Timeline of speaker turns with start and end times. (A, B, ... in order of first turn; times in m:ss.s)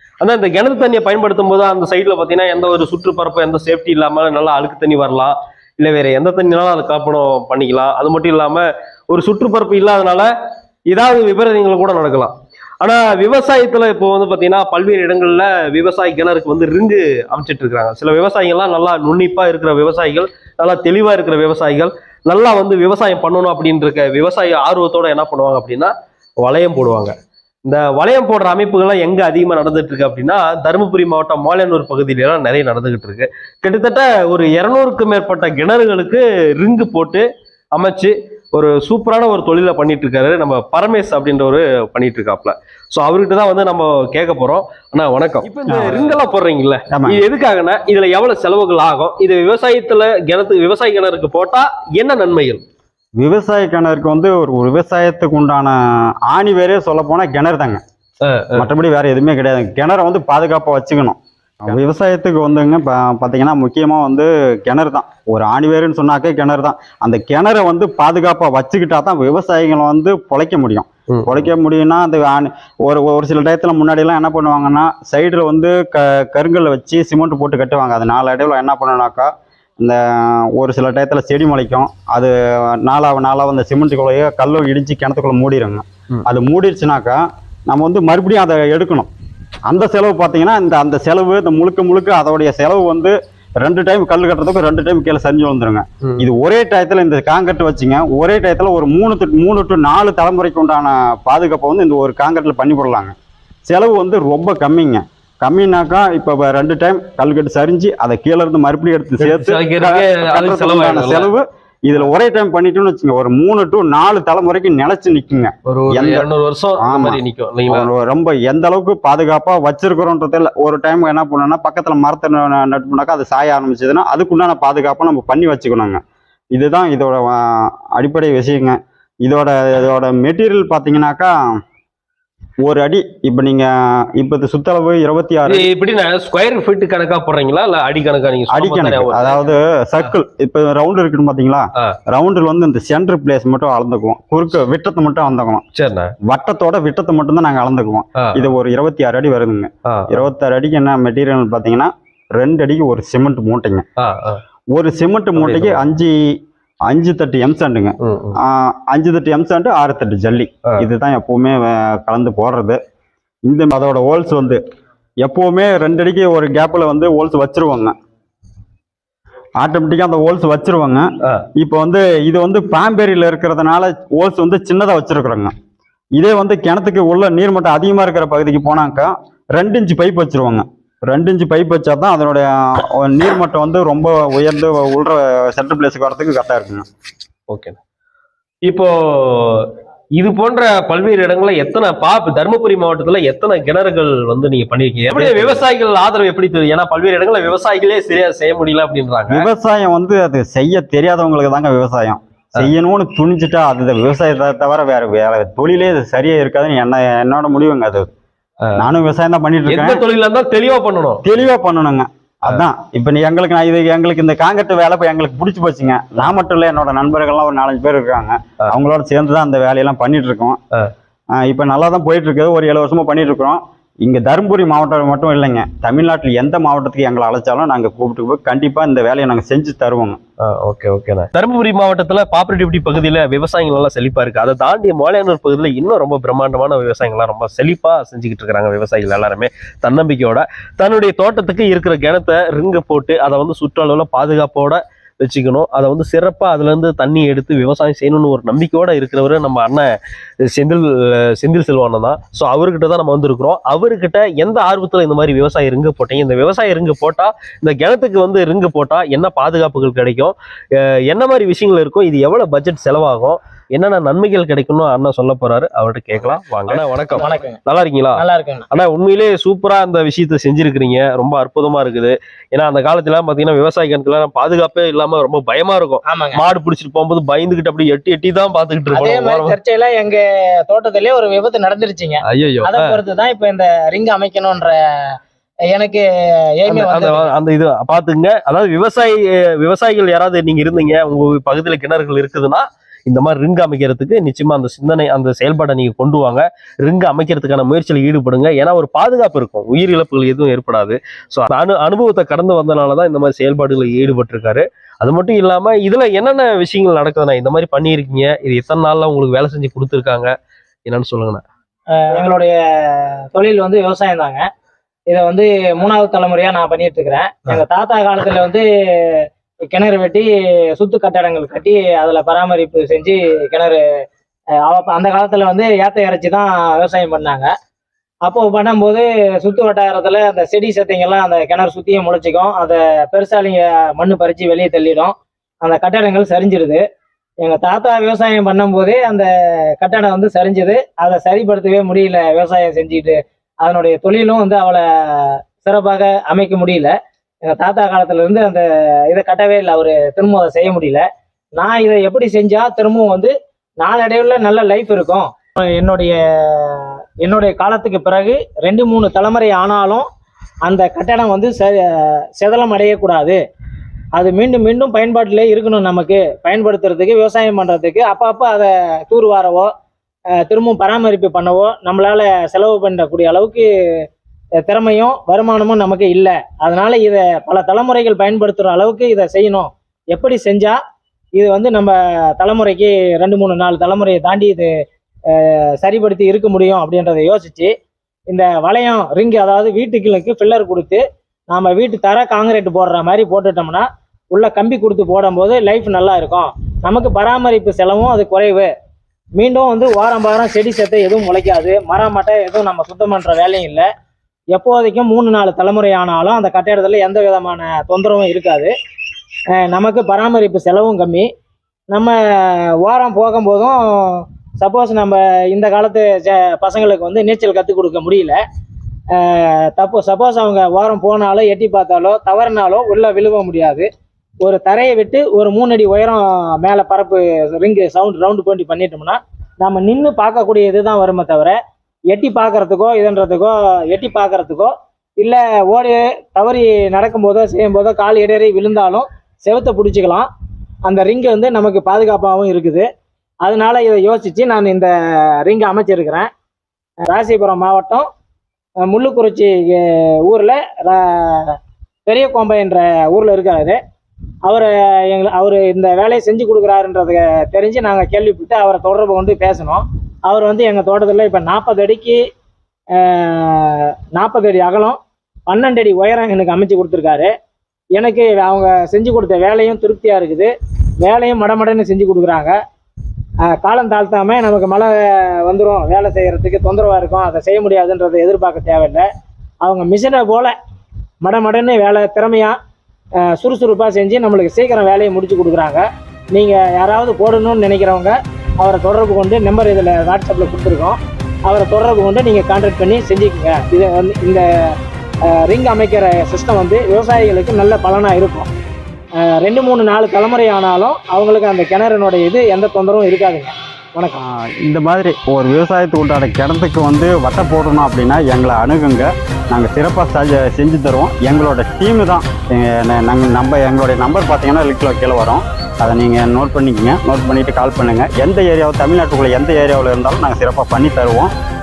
0:00.2-0:10.3 A
0:10.9-0:27.1 A
0:27.6-0:52.6 A
0:45.7-0:46.2 B
0:46.9-0:47.2 B
0:53.2-0:57.8 B
0:58.2-0:58.7 A
0:58.6-1:29.1 B
1:11.1-1:11.5 A
1:29.7-1:43.1 B
1:43.7-1:56.3 B
1:49.2-1:51.3 A
1:55.7-1:57.9 A
1:56.8-2:06.0 B
2:06.5-2:11.3 B
2:12.6-2:15.7 B
2:15.4-2:19.5 A
2:18.5-2:25.6 B
2:25.8-2:26.1 A
2:26.3-2:33.8 B
2:28.2-2:28.5 A
2:29.9-2:30.2 A
2:34.0-2:34.4 A
2:34.7-2:42.8 B
2:35.4-2:35.8 A
2:38.0-2:38.4 A
2:43.4-2:44.6 B
2:45.2-2:47.9 B
2:49.6-2:55.5 B
2:56.2-3:06.8 B
3:07.5-3:07.8 A
3:08.7-3:19.5 A
3:15.1-3:15.6 B
3:19.3-3:28.1 B
3:28.6-3:28.9 A
3:28.8-3:30.0 B
3:29.7-3:31.4 A
3:31.2-3:40.6 B
3:41.4-3:50.2 B
3:50.5-4:09.9 A
4:10.4-4:39.6 A
4:26.7-4:27.6 C
4:28.2-4:28.7 C
4:36.0-4:36.4 C
4:38.9-4:44.8 C
4:42.2-4:42.9 A
4:45.7-4:47.3 C
4:46.7-5:10.3 A
5:10.9-5:11.4 A
5:12.0-5:14.4 C
5:15.1-5:19.2 C
5:19.7-5:23.8 C
5:24.6-5:27.5 C
5:28.2-5:36.8 C
5:37.4-5:46.9 C
5:47.5-5:51.0 C
5:51.6-6:00.1 C
6:00.6-6:03.4 C
6:04.2-6:09.7 C
6:10.4-6:13.7 C
6:14.6-6:20.8 C
6:21.4-6:24.7 C
6:25.3-6:27.7 C
6:28.3-6:38.7 C
6:39.4-6:43.9 C
6:44.5-6:48.7 C
6:49.5-6:51.3 C
6:51.9-6:58.4 C
6:59.1-7:03.9 C
7:04.4-7:11.6 C
7:12.1-7:20.3 C
7:20.9-7:22.9 C
7:23.4-7:26.3 C
7:27.1-7:28.1 C
7:28.9-7:33.8 C
7:34.5-7:42.2 C
7:43.0-7:47.3 C
7:47.9-7:52.6 C
7:53.5-7:59.1 C
7:59.6-8:00.5 C
8:01.2-8:02.6 C
8:03.2-8:14.4 C
8:15.3-8:18.5 C
8:19.2-8:24.2 C
8:24.2-8:41.3 B